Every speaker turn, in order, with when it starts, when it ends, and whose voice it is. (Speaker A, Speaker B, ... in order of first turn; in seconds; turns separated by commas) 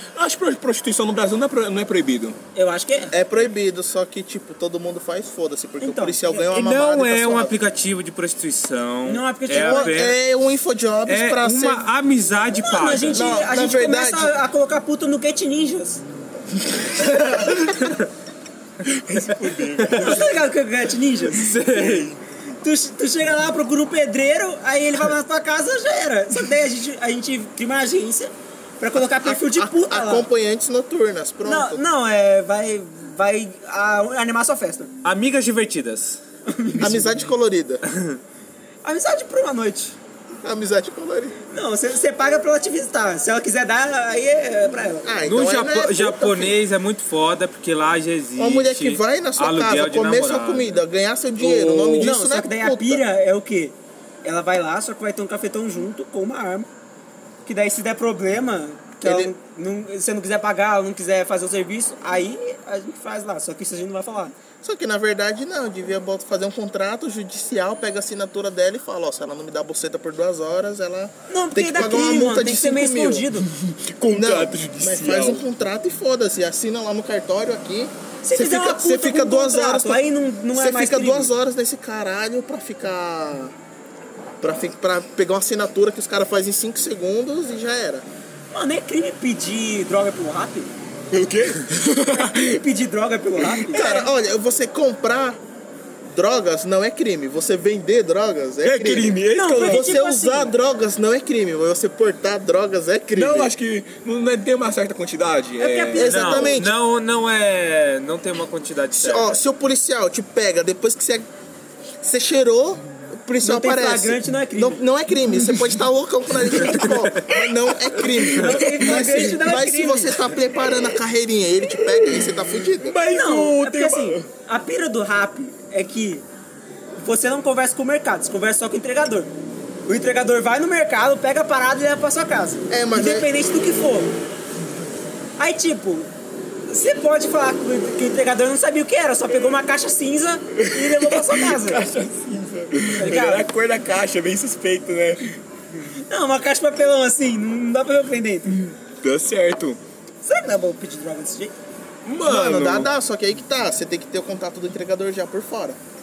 Speaker A: 0.1-2.4, Speaker B: 2.5-3.1, Speaker C: 3.1-7.6, Speaker B: 5.8-6.4, Speaker D: 6.4-10.2, Speaker B: 9.0-10.0, Speaker C: 9.5-11.8, Speaker D: 11.1-13.3, Speaker B: 12.5-16.0, Speaker C: 13.1-14.4, Speaker A: 17.0-17.6, Speaker D: 17.3-18.0, Speaker A: 18.8-20.4, Speaker D: 19.8-20.1, Speaker B: 20.0-21.6, Speaker D: 21.3-22.1, Speaker A: 21.6-22.1, Speaker B: 22.6-30.3, Speaker C: 29.0-31.8, Speaker B: 31.4-34.9, Speaker D: 35.0-36.2, Speaker B: 36.5-37.0, Speaker C: 36.8-37.8, Speaker D: 37.9-38.2, Speaker B: 38.8-40.0, Speaker C: 40.4-41.4, Speaker B: 41.5-45.1, Speaker C: 45.0-46.5, Speaker D: 45.2-50.8, Speaker C: 48.4-53.0, Speaker A: 51.4-52.1, Speaker B: 52.0-56.7, Speaker B: 57.5-64.3, Speaker C: 59.0-59.3, Speaker C: 64.6-73.2, Speaker B: 71.3-73.5, Speaker A: 73.6-75.4, Speaker C: 74.1-83.5, Speaker B: 78.2-81.3, Speaker C: 84.4-88.0, Speaker B: 88.5-90.7, Speaker A: 91.1-92.6, Speaker B: 92.1-94.0, Speaker A: 93.4-93.8, Speaker C: 93.7-95.4, Speaker C: 96.1-103.5, Speaker A: 98.6-99.9, Speaker B: 99.3-100.5, Speaker A: 103.1-106.1, Speaker B: 105.6-106.6, Speaker C: 106.0-106.7, Speaker D: 106.0-109.4, Speaker C: 108.9-111.3, Speaker C: 112.0-123.0, Speaker B: 113.4-114.8, Speaker A: 116.5-119.1, Speaker D: 116.8-117.2, Speaker B: 118.3-120.2, Speaker A: 121.9-124.3, Speaker B: 123.1-126.2, Speaker B: 127.0-129.3, Speaker B: 129.9-134.1, Speaker C: 132.7-133.3, Speaker B: 135.4-136.1, Speaker B: 136.7-141.8, Speaker A: 140.5-145.4, Speaker B: 142.9-143.5, Speaker B: 146.1-148.6, Speaker A: 149.0-149.8, Speaker B: 150.2-151.5, Speaker A: 152.0-152.9, Speaker C: 152.2-155.8